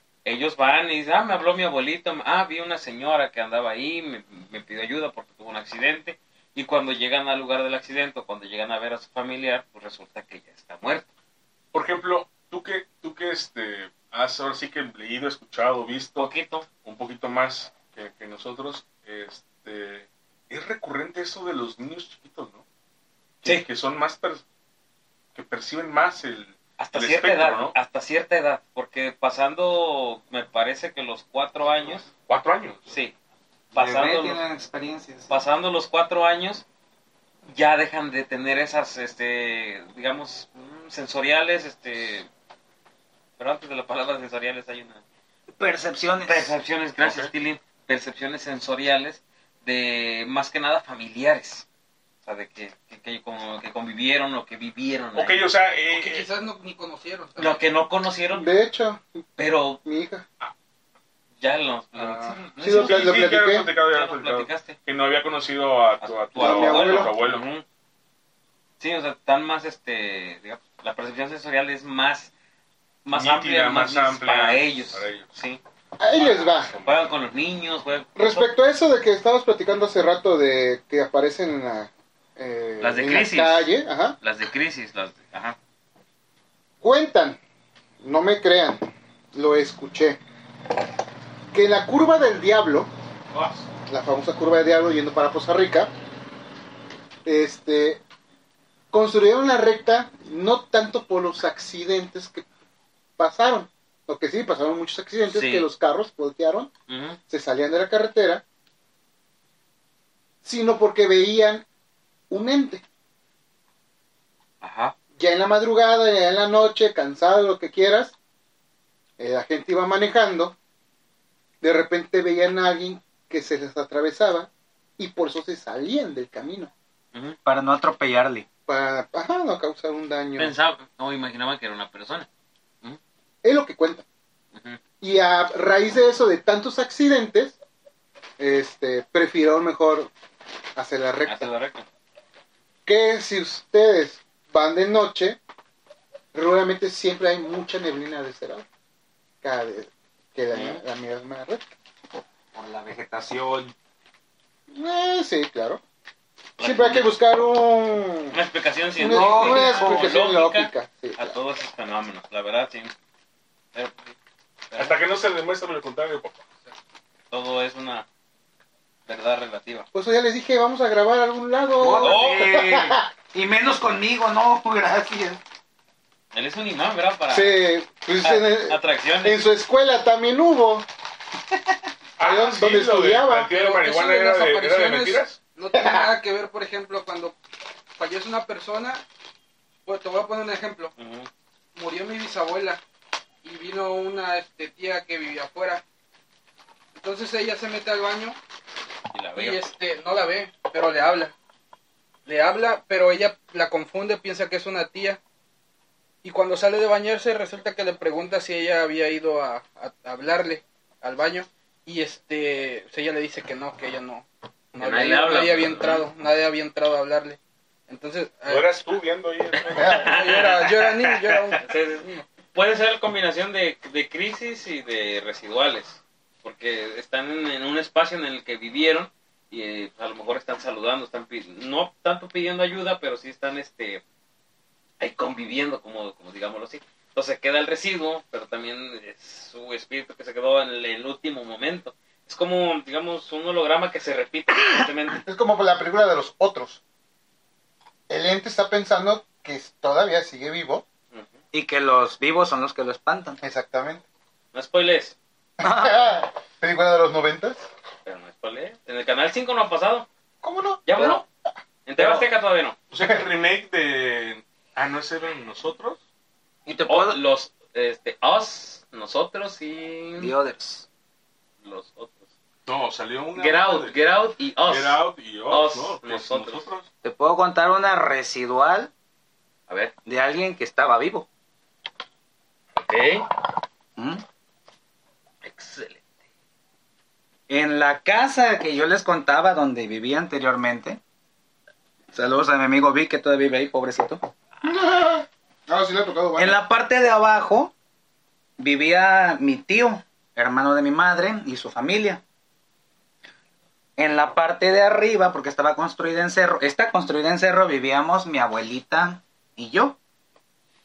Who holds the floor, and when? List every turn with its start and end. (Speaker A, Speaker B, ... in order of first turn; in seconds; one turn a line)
Speaker A: 0.2-11.1
Speaker B: 11.7-16.3
Speaker A: 16.2-16.7
Speaker B: 16.8-22.6
Speaker B: 23.4-24.4
Speaker B: 25.4-27.8
Speaker A: 26.8-32.1
Speaker B: 32.1-32.9
Speaker A: 32.9-33.1
Speaker A: 33.7-34.4
Speaker C: 33.7-35.4
Speaker A: 35.3-36.6
Speaker A: 37.5-42.3
Speaker A: 43.4-45.0
Speaker C: 45.6-46.5
Speaker A: 46.2-51.7
Speaker B: 47.0-47.3
Speaker A: 52.2-55.4
Speaker B: 55.1-56.3
Speaker D: 55.9-57.6
Speaker A: 57.4-58.5
Speaker E: 58.3-59.2
Speaker A: 59.4-59.8
Speaker E: 59.8-60.2
Speaker A: 61.4-64.8
Speaker E: 62.0-63.7
Speaker B: 62.7-67.5
Speaker A: 66.0-67.7
Speaker E: 66.4-67.1
Speaker A: 68.8-72.3
Speaker A: 73.0-75.6
Speaker B: 73.1-75.3
Speaker E: 76.0-76.7
Speaker A: 76.2-78.5
Speaker B: 76.4-77.1
Speaker E: 78.2-84.2
Speaker A: 82.8-85.6
Speaker E: 86.8-87.4
Speaker E: 88.0-90.2
Speaker E: 91.5-92.9
Speaker B: 93.3-93.7
Speaker E: 93.9-95.9
Speaker E: 97.2-98.0
Speaker E: 98.9-102.5
Speaker E: 103.2-106.7
Speaker A: 105.3-105.7
Speaker A: 106.9-107.2
Speaker E: 107.3-108.4
Speaker E: 110.4-111.7
Speaker E: 112.3-112.8
Speaker A: 114.6-115.0
Speaker E: 115.2-118.2
Speaker E: 119.2-120.6
Speaker E: 121.6-126.7
Speaker C: 127.5-128.5
Speaker E: 128.7-130.5
Speaker A: 130.4-132.3
Speaker E: 133.4-134.1
Speaker A: 134.6-134.8
Speaker E: 135.0-137.6
Speaker E: 138.4-140.1
Speaker E: 140.8-141.5
Speaker A: 141.3-141.9
Speaker E: 142.9-145.4
Speaker E: 146.3-148.7
Speaker E: 149.4-151.7
Speaker A: 150.5-150.8
Speaker C: 152.6-153.8
Speaker E: 154.7-155.8
Speaker A: 156.6-157.1
Speaker E: 156.6-158.4
Speaker A: 158.3-162.9
Speaker E: 159.0-161.4
Speaker C: 159.0-160.1
Speaker A: 163.7-164.1
Speaker A: 164.7-165.0
Speaker B: 164.8-166.4
Speaker A: 167.3-168.1
Speaker A: 169.1-169.9
Speaker E: 169.9-173.1
Speaker C: 171.8-175.4
Speaker A: 171.9-172.9
Speaker A: 176.3-177.6
Speaker E: 177.3-180.9
Speaker A: 178.2-179.4
Speaker B: 182.2-185.4
Speaker E: 182.2-183.5
Speaker D: 183.5-187.4
Speaker E: 185.7-186.1
Speaker D: 188.0-189.0
Speaker D: 189.9-190.9
Speaker A: 191.0-191.3
Speaker D: 191.8-192.8
Speaker D: 193.4-195.8
Speaker D: 196.9-198.4
Speaker A: 199.1-199.7
Speaker D: 199.4-201.3
Speaker D: 202.3-205.2
Speaker D: 206.2-218.7
Speaker A: 214.7-216.1
Speaker B: 218.5-220.2
Speaker A: 219.8-220.9
Speaker E: 219.8-220.1
Speaker D: 219.8-222.2
Speaker A: 221.5-234.0
Speaker A: 235.0-245.2
Speaker E: 245.2-246.8
Speaker E: 248.1-250.8
Speaker C: 251.5-253.4
Speaker E: 253.4-254.0
Speaker A: 254.5-255.2
Speaker E: 255.6-257.7
Speaker C: 255.6-256.2
Speaker A: 258.1-260.1
Speaker E: 260.4-261.2
Speaker A: 260.9-261.2
Speaker A: 261.9-262.8
Speaker B: 262.9-266.0
Speaker E: 263.0-263.2
Speaker C: 266.7-267.2
Speaker A: 266.9-270.3
Speaker C: 270.2-270.9
Speaker A: 271.6-272.3
Speaker B: 272.7-274.0
Speaker A: 273.4-276.6
Speaker B: 274.7-276.9
Speaker C: 277.0-278.9
Speaker A: 279.7-279.9
Speaker C: 280.1-281.3
Speaker A: 282.8-283.3
Speaker C: 284.0-284.2
Speaker A: 285.4-286.1
Speaker C: 287.5-291.0
Speaker C: 292.1-294.3
Speaker E: 294.6-296.6
Speaker C: 296.4-297.7
Speaker C: 298.6-302.2
Speaker C: 304.0-310.0